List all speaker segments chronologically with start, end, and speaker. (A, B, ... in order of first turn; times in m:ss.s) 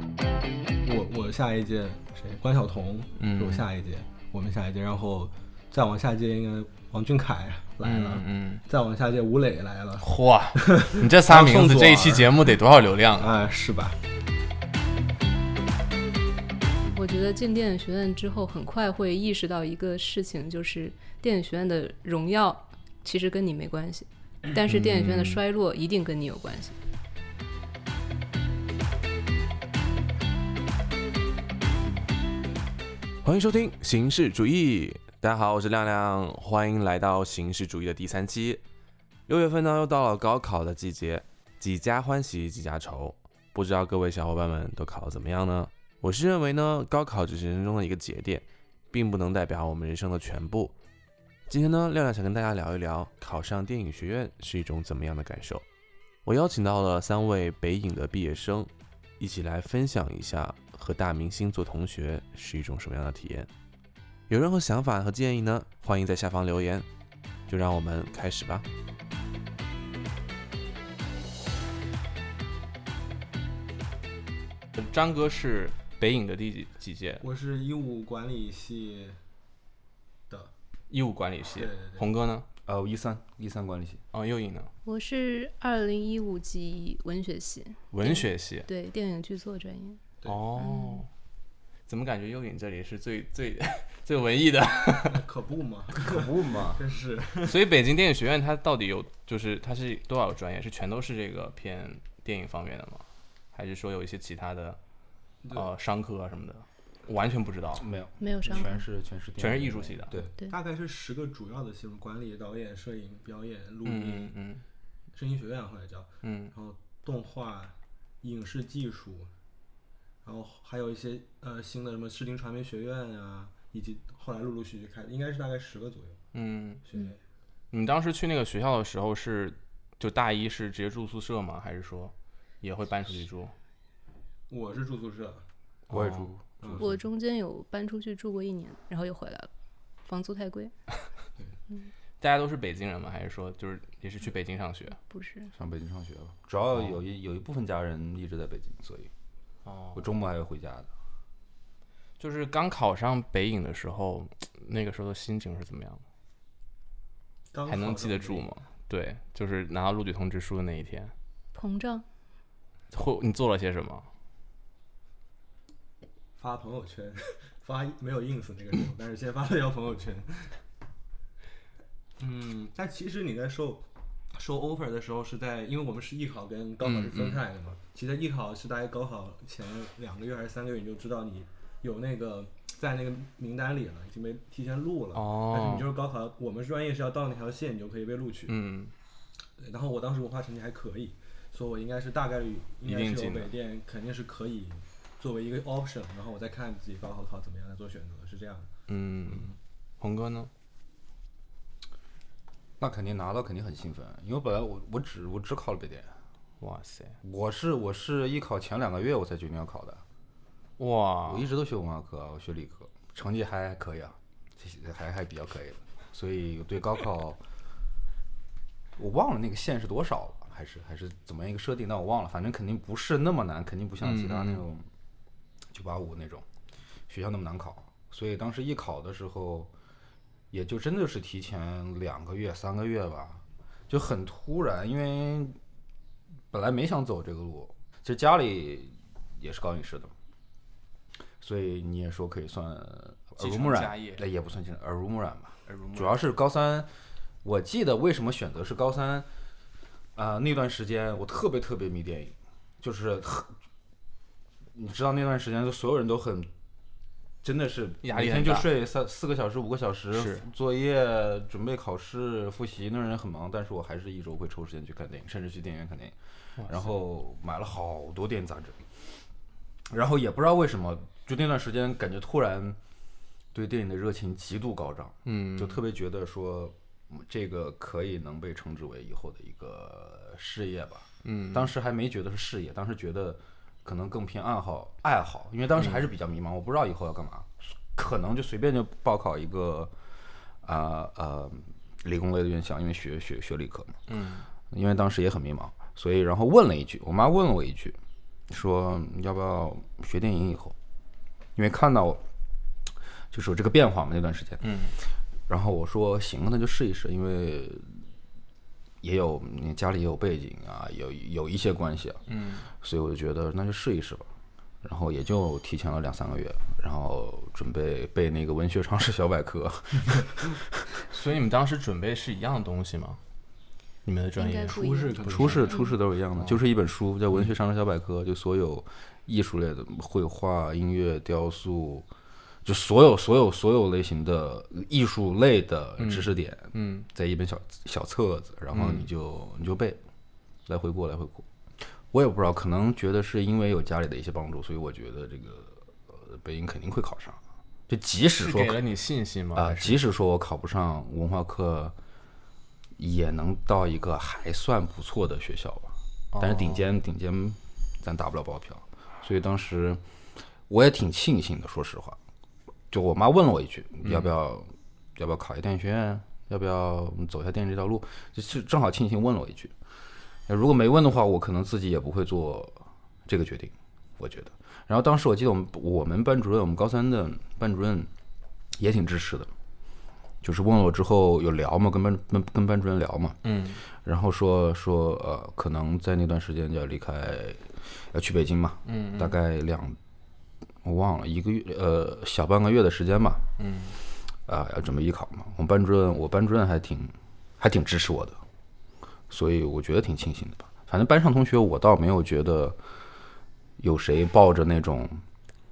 0:00.8-0:12.3 A
0:03.2-0:03.7 B
0:07.8-0:08.6 B
0:10.0-0:13.3 B
0:13.2-0:14.0 A
0:16.8-0:26.8 C
0:24.7-0:25.4 B
0:33.2-0:38.6 D
0:39.3-0:50.8 D
0:51.5-0:55.6 D
0:56.2-1:03.5 D
1:04.3-1:06.9 D
1:07.5-1:08.6 D
1:14.8-1:17.2 B
1:17.2-1:19.2 A
1:20.9-1:22.5 B
1:21.6-1:22.1 A
1:22.7-1:24.0 E
1:24.1-1:24.7 B
1:24.8-1:30.0 C
1:27.9-1:28.7 B
1:30.3-1:31.1 B
1:30.6-1:31.0 C
1:31.9-1:35.2 B
1:35.1-1:37.6 A
1:36.0-1:36.8 E
1:37.4-1:44.8 B
1:45.5-1:47.8 B
1:47.8-1:50.3 E
1:48.2-1:48.8 C
1:49.4-1:50.2 B
1:50.5-1:54.3 A
1:53.8-1:54.6 B
1:55.1-1:59.3 A
1:56.2-1:56.5 B
2:00.2-2:06.2 A
2:06.3-2:06.8 B
2:06.8-2:07.2 A
2:07.7-2:13.5 B
2:14.5-2:15.4 A
2:15.9-2:16.3 B
2:15.9-2:16.9 E
2:16.6-2:16.9 A
2:16.8-2:19.5 C
2:20.1-2:20.8 C
2:22.2-2:25.0 B
2:25.0-2:25.5 C
2:25.5-2:29.1 E
2:26.7-2:27.0 B
2:29.6-2:30.0 B
2:30.0-2:30.9 E
2:32.2-2:36.0 B
2:37.5-2:38.5 A
2:37.7-2:41.1 B
2:41.5-2:42.0 C
2:42.9-2:44.1 B
2:46.4-2:50.5 A
2:52.2-3:08.5 A
2:56.8-2:57.4 B
3:05.1-3:05.9 B
3:08.5-3:08.9 B
3:09.6-3:18.7 A
3:12.8-3:13.5 B
3:18.9-3:20.5 B
3:19.3-3:19.6 A
3:22.8-3:26.1 E
3:26.6-3:27.2 B
3:27.2-3:30.0 E
3:30.8-3:31.5 B
3:31.3-3:37.4 E
3:39.0-3:44.8 E
3:44.0-3:44.6 B
3:45.7-3:46.5 E
3:47.1-3:49.7 E
3:50.5-3:55.6 E
3:56.5-4:00.1 E
4:01.4-4:06.9 E
4:03.4-4:04.2 B
4:05.7-4:06.2 B
4:07.4-4:09.3 E
4:10.2-4:13.5 E
4:14.7-4:16.5 E
4:17.4-4:28.9 E
4:18.0-4:18.7 B
4:20.1-4:20.4 B
4:26.6-4:26.9 B
4:29.9-4:32.8 E
4:33.5-4:49.9 E
4:35.3-4:35.8 B
4:41.2-4:41.7 B
4:45.8-4:46.0 B
4:50.6-4:54.0 E
4:54.1-4:54.5 B
4:54.7-4:58.0 E
4:58.5-5:00.8 E
5:01.6-5:02.2 E
5:03.3-5:04.6 E
5:04.6-5:05.0 B
5:05.5-5:08.0 E
5:09.0-5:12.2 E
5:12.3-5:12.7 B
5:12.8-5:14.3 E
5:14.8-5:20.9 E
5:21.1-5:23.2 B
5:24.0-5:24.8 B
5:24.4-5:26.0 C
5:24.7-5:25.8 A
5:25.2-5:32.1 E
5:32.6-5:40.0 E
5:36.0-5:37.1 B
5:38.7-5:39.1 B
5:40.7-5:41.5 E
5:42.1-5:48.8 E
5:48.4-5:50.0 B
5:49.6-5:52.0 E
5:53.0-6:00.0 E
5:56.3-5:56.8 B
6:00.7-6:02.2 E
6:02.9-6:09.7 E
6:04.0-6:04.3 B
6:10.5-6:18.1 E
6:18.8-6:19.5 E
6:20.4-6:23.4 E
6:23.4-6:23.8 B
6:24.0-6:30.0 E
6:28.8-6:29.4 B
6:30.8-6:33.4 E
6:33.6-6:34.0 B
6:34.5-6:38.4 E
6:39.3-6:42.8 E
6:43.8-6:45.2 E